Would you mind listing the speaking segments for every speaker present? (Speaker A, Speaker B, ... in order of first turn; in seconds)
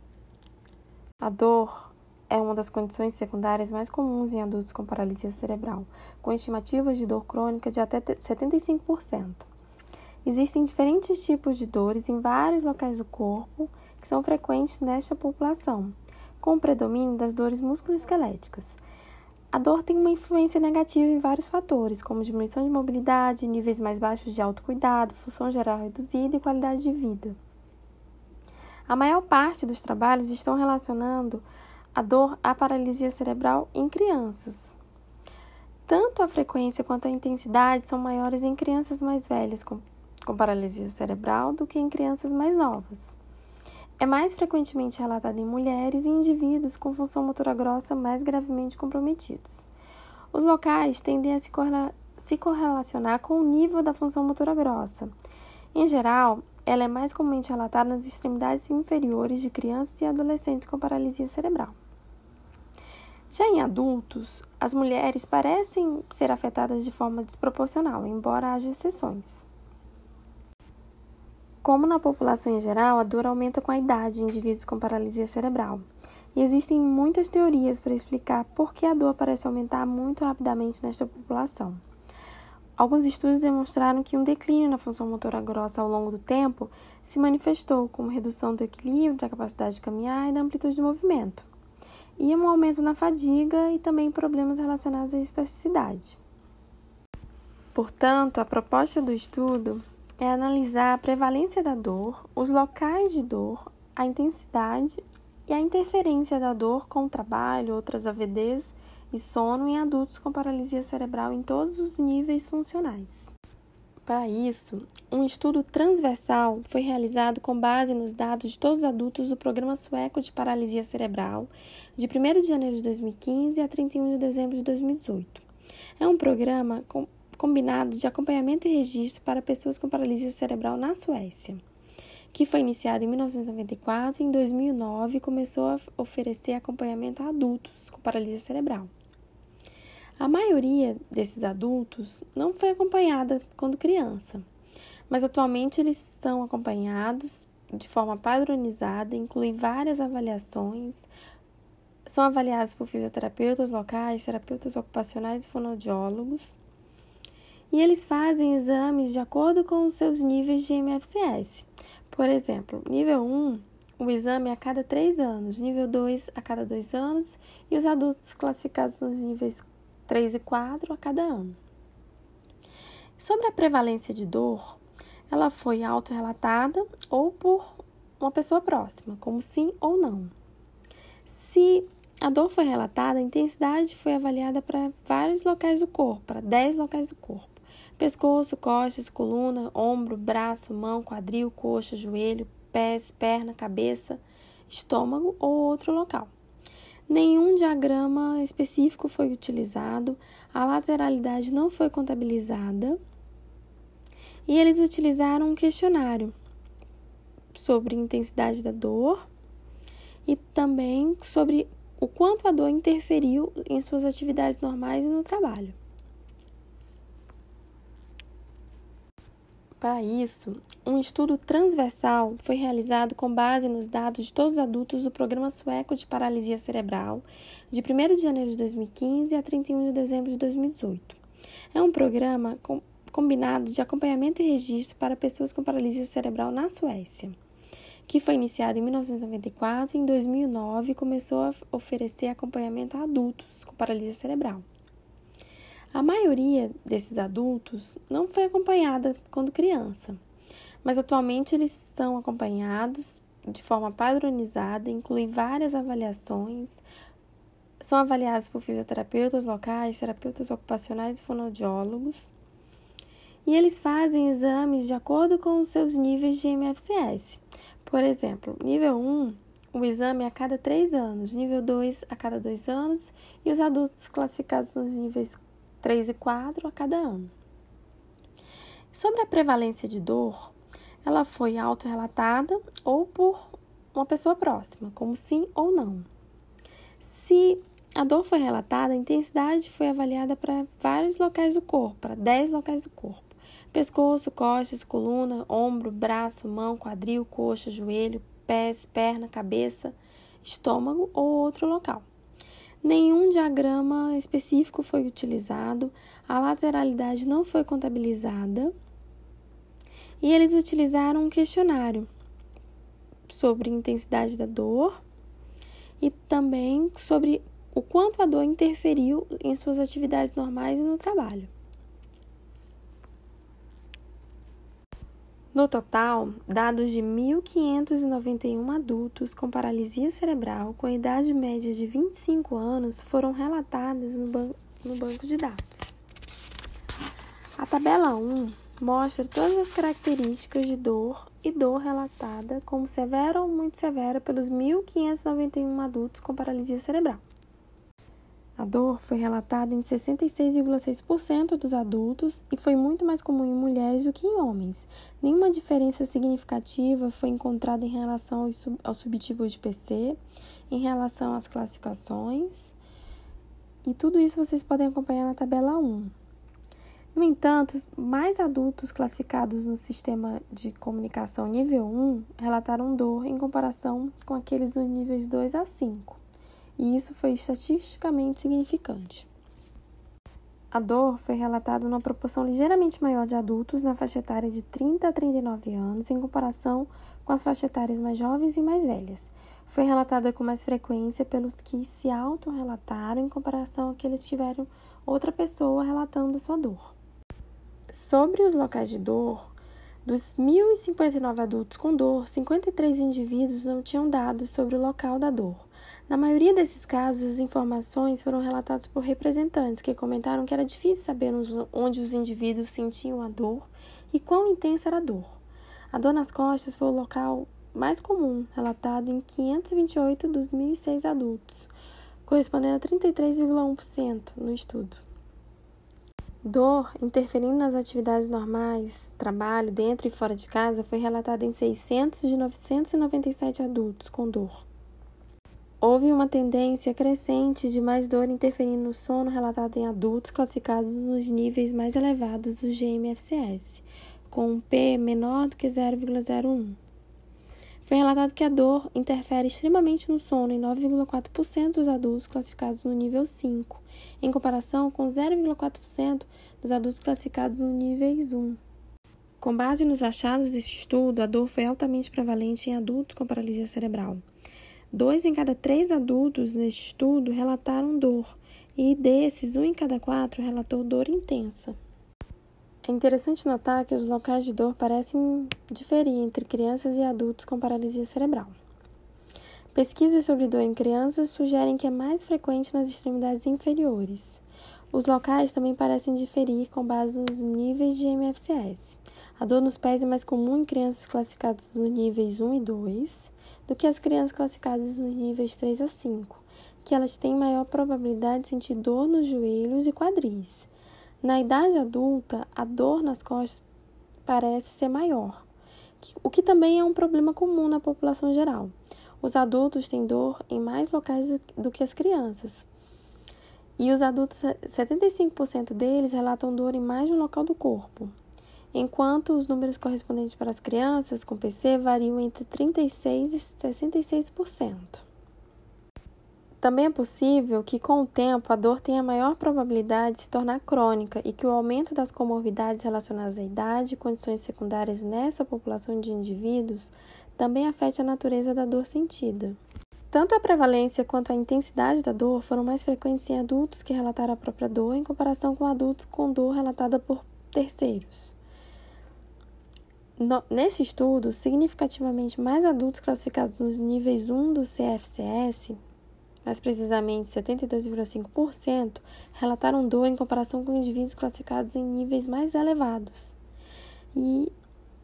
Speaker A: 1.2-9.5, 10.2-18.8, 19.5-27.4, 28.9-34.7, 35.9-43.1, 44.0-49.7, 50.3-55.1, 55.7-61.8, 63.3-69.4, 71.6-81.8, 82.8-91.5, 92.2-96.2, 97.7-113.3, 114.0-125.4, 126.0-131.6, 132.3-138.9, 140.2-144.4, 145.1-151.1, 152.1-156.5, 157.7-171.6, 173.2-180.3, 181.2-196.3, 197.1-203.0, 204.5-206.3, 207.5-209.2, 210.2-215.8, 219.8-231.2, 231.7-237.3, 238.1-244.6, 245.9-250.2, 250.8-256.8, 257.8-262.3, 263.4-277.3, 278.9-286.1, 287.0-302.1, 302.8-308.7, 310.2-312.1, 313.3-315.0, 316.0-321.5, 325.5-335.9, 337.6-347.2, 348.6-360.2, 360.7-362.7, 363.8-366.1, 367.1-376.2, 376.8-379.3, 380.7-396.9, 397.9-399.5, 400.0-415.4, 415.9-421.7, 422.2-425.0, 426.4-434.6, 435.8-446.8, 447.8-458.6, 459.4-464.2, 464.9-471.8, 472.8-478.5, 479.7-500.7, 501.2-503.6, 504.2-505.4, 506.0-512.6, 513.8-518.1, 518.7-525.0, 526.6-539.6, 540.1-548.3, 550.2-555.8, 556.4-563.4, 564.1-564.5